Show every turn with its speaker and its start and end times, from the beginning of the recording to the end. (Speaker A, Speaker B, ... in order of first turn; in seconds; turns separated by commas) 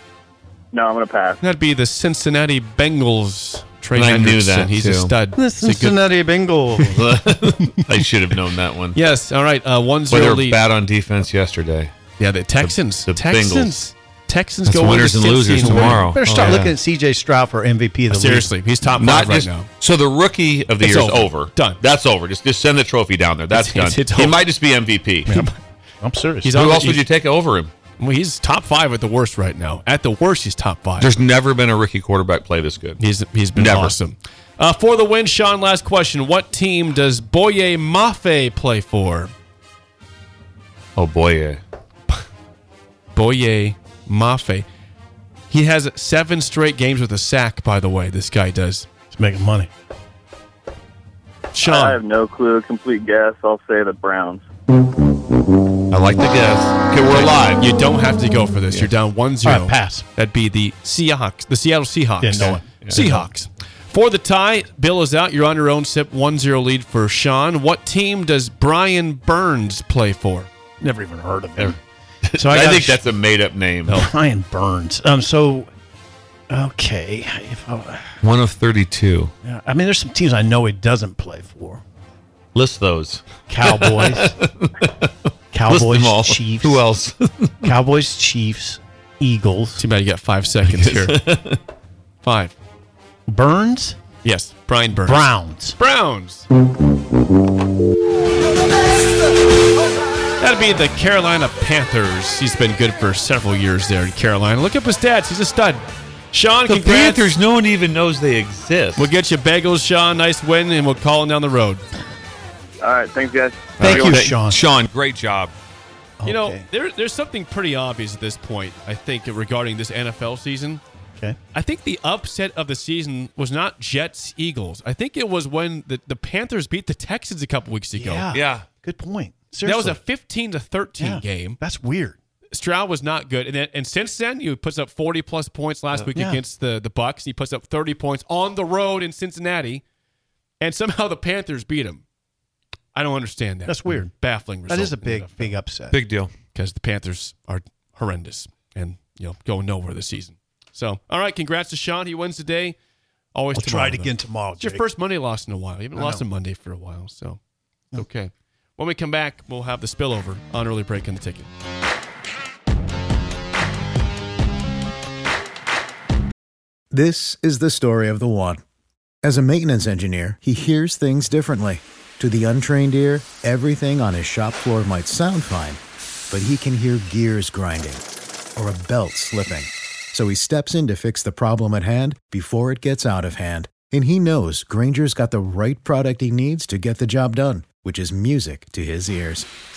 Speaker A: 0.7-1.4, Speaker B: 1.4-6.0, Speaker C: 3.9-5.1, Speaker D: 5.3-7.1, Speaker C: 7.0-9.0, Speaker B: 8.9-10.6, Speaker C: 10.1-11.9, Speaker B: 12.2-16.7, Speaker C: 12.6-13.8, Speaker C: 14.7-16.7, Speaker D: 15.7-18.5, Speaker B: 18.1-19.7, Speaker C: 19.0-25.3, Speaker B: 20.8-21.8, Speaker B: 23.5-24.4, Speaker B: 25.3-25.6, Speaker D: 26.0-26.5, Speaker B: 26.4-27.1, Speaker C: 26.5-27.7, Speaker B: 28.0-31.1, Speaker C: 31.0-33.0, Speaker B: 33.0-39.3, Speaker C: 33.5-34.0, Speaker C: 41.0-41.6, Speaker B: 43.1-44.7, Speaker B: 45.5-48.9, Speaker D: 49.1-49.7, Speaker B: 51.5-52.0, Speaker A: 51.6-54.5, Speaker C: 55.9-57.7, Speaker B: 57.1-70.5, Speaker D: 59.5-60.1, Speaker D: 62.2-63.1, Speaker C: 62.5-63.2, Speaker D: 70.8-71.8, Speaker C: 71.6-74.1, Speaker D: 72.4-73.0, Speaker D: 73.9-75.7, Speaker D: 76.5-78.2, Speaker C: 78.2-79.3, Speaker D: 79.4-81.8, Speaker C: 82.5-85.1, Speaker D: 83.5-84.4, Speaker D: 85.5-86.9, Speaker C: 85.7-87.7, Speaker D: 87.6-89.8, Speaker B: 89.8-91.3, Speaker C: 90.7-91.6, Speaker B: 92.2-92.5, Speaker D: 93.3-94.0, Speaker B: 94.2-96.5, Speaker D: 94.9-95.8, Speaker B: 100.4-107.4, Speaker C: 106.7-109.1, Speaker B: 109.0-111.8, Speaker A: 112.8-114.2, Speaker C: 113.8-115.5, Speaker D: 113.8-114.6, Speaker D: 116.2-116.7, Speaker B: 116.2-120.8, Speaker B: 121.5-128.3, Speaker D: 127.9-130.0, Speaker C: 128.3-128.7, Speaker B: 129.6-131.6, Speaker D: 131.0-132.2, Speaker B: 132.5-139.8, Speaker D: 136.2-136.4, Speaker B: 140.6-142.0, Speaker B: 142.9-145.6, Speaker D: 143.7-144.1, Speaker D: 144.7-146.0, Speaker C: 145.9-146.3, Speaker B: 146.5-152.8, Speaker B: 153.3-157.4, Speaker D: 153.5-154.9, Speaker D: 155.9-156.2, Speaker B: 157.9-161.5, Speaker E: 166.9-168.6, Speaker E: 169.2-178.0, Speaker E: 178.6-189.5